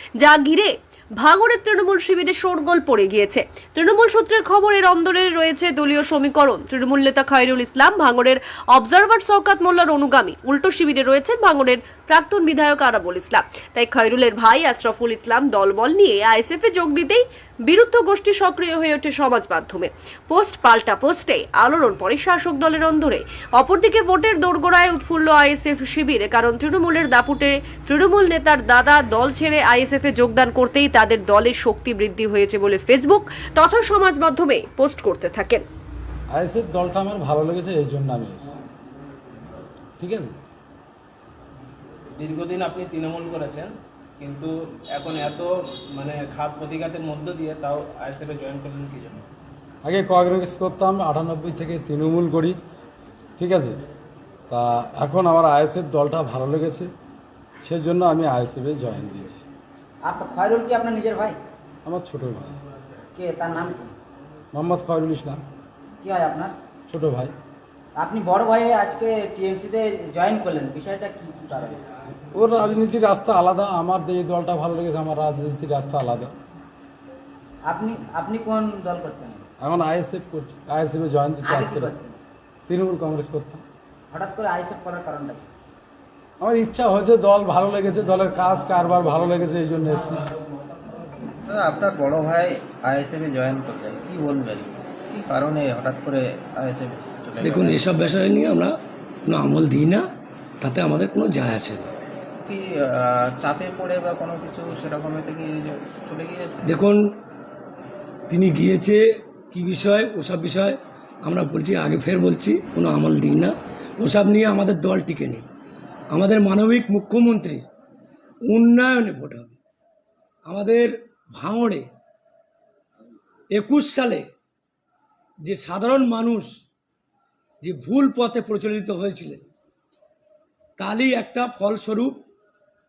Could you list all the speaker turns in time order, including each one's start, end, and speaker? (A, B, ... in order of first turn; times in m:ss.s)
0:00.2-0:35.6 A
0:36.3-0:38.5 B
0:40.0-0:40.4 B
0:42.2-0:49.2 C
0:49.8-0:52.6 B
0:53.4-0:53.8 B
0:54.5-0:56.9 B
0:57.6-0:59.4 B
1:00.0-1:01.4 D
1:01.8-1:02.5 B
1:03.1-1:03.9 D
1:04.5-1:05.4 B
1:06.0-1:06.5 D
1:06.9-1:07.3 B
1:08.0-1:11.8 D
1:12.3-1:16.3 B
1:17.6-1:19.4 D
1:19.6-1:21.9 B
1:21.4-1:22.2 D
1:22.7-1:23.6 B
1:24.1-1:25.4 D
1:26.4-1:30.2 B
1:31.5-1:38.0 E
1:37.4-1:40.1 F
1:40.6-1:41.9 F
1:42.4-1:46.8 E
1:46.6-1:47.0 F
1:48.3-1:55.4 F
1:56.1-1:57.6 F
1:58.5-1:59.6 F
2:00.4-2:01.9 F
2:03.5-2:04.2 F
2:05.4-2:06.5 F
2:07.6-2:09.4 F
2:10.8-2:12.2 F